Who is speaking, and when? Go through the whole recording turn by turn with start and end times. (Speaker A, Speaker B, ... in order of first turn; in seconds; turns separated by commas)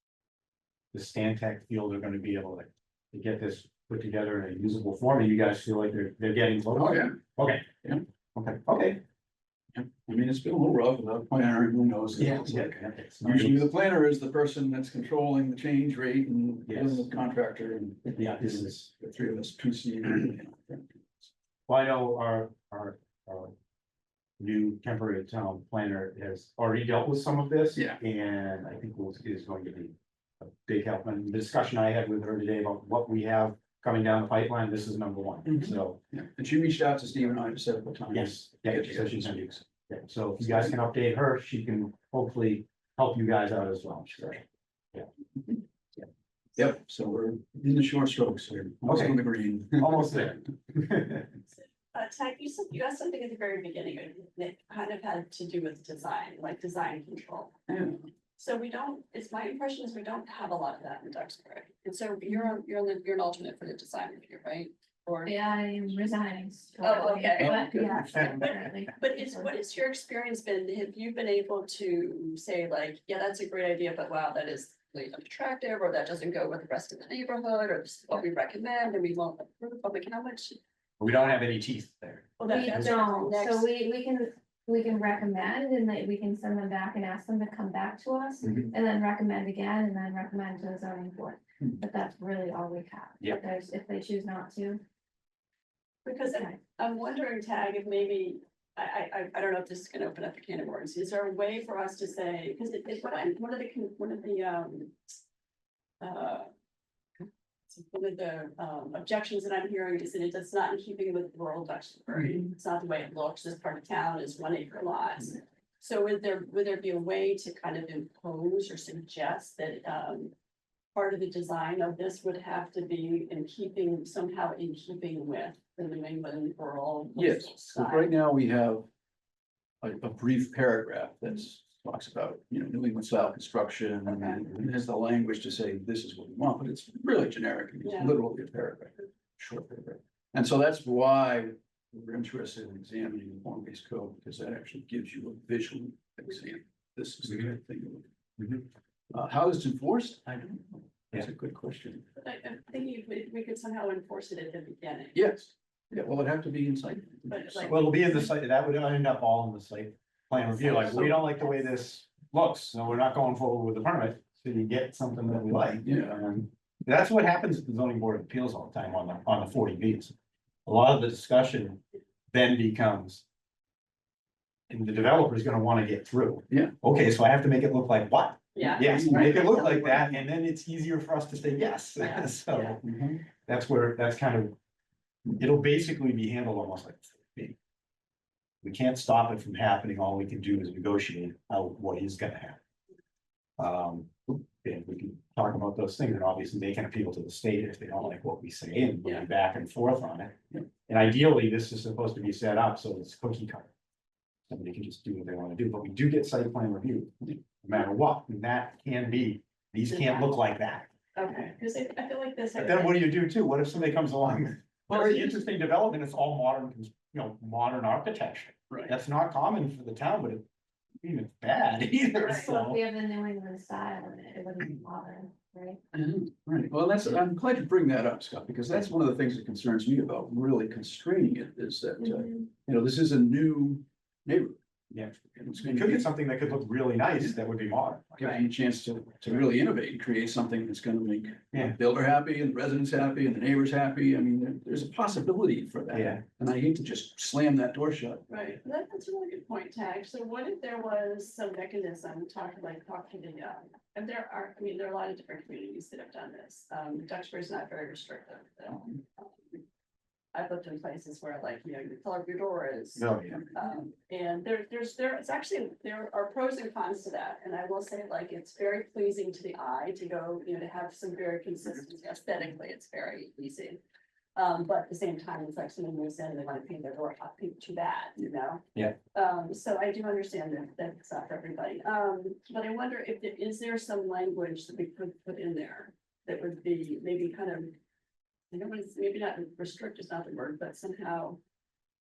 Speaker A: 0.9-7.7, Speaker B: 6.7-7.2, Speaker A: 8.3-9.0, Speaker B: 9.7-21.3, Speaker A: 12.2-13.7, Speaker A: 16.7-17.1, Speaker A: 18.2-18.9, Speaker A: 21.7-23.5, Speaker A: 24.4-36.0, Speaker B: 27.7-28.0, Speaker B: 35.4-39.4, Speaker A: 38.1-45.1, Speaker B: 46.5-50.4, Speaker A: 48.8-51.3, Speaker C: 51.5-57.5, Speaker B: 57.7-58.1, Speaker C: 58.4-65.3, Speaker D: 62.3-62.5, Speaker D: 65.2-69.5, Speaker C: 66.8-80.6, Speaker B: 67.4-68.2, Speaker A: 81.0-83.0, Speaker C: 82.4-83.7, Speaker D: 82.5-94.8, Speaker A: 88.4-88.7, Speaker C: 96.0-105.0, Speaker C: 106.0-106.5, Speaker C: 107.7-120.3, Speaker C: 120.9-128.1, Speaker B: 127.2-128.9, Speaker B: 129.8-148.1, Speaker C: 134.1-134.4, Speaker C: 137.8-138.2, Speaker A: 148.4-148.7, Speaker B: 149.1-152.1, Speaker C: 152.2-155.2, Speaker B: 155.1-157.8, Speaker C: 157.3-158.2, Speaker A: 157.7-170.1, Speaker B: 160.6-161.3, Speaker B: 165.8-166.2, Speaker A: 170.7-171.8, Speaker A: 172.3-173.2, Speaker A: 174.7-182.8, Speaker C: 178.5-179.9, Speaker B: 178.8-180.1, Speaker C: 182.0-182.8, Speaker B: 182.8-183.2, Speaker A: 183.4-184.6, Speaker A: 185.4-187.6, Speaker A: 188.6-192.6, Speaker A: 193.6-203.7, Speaker A: 204.5-210.9, Speaker C: 209.9-210.3, Speaker C: 211.1-213.1, Speaker A: 212.6-220.4, Speaker A: 221.0-222.8, Speaker D: 222.2-225.8, Speaker B: 225.9-234.6, Speaker A: 234.9-238.4, Speaker B: 235.1-236.1, Speaker B: 238.2-248.2, Speaker A: 245.9-246.2, Speaker C: 248.3-259.6, Speaker C: 260.3-273.8, Speaker A: 262.9-263.5, Speaker C: 274.4-287.8, Speaker C: 288.5-291.4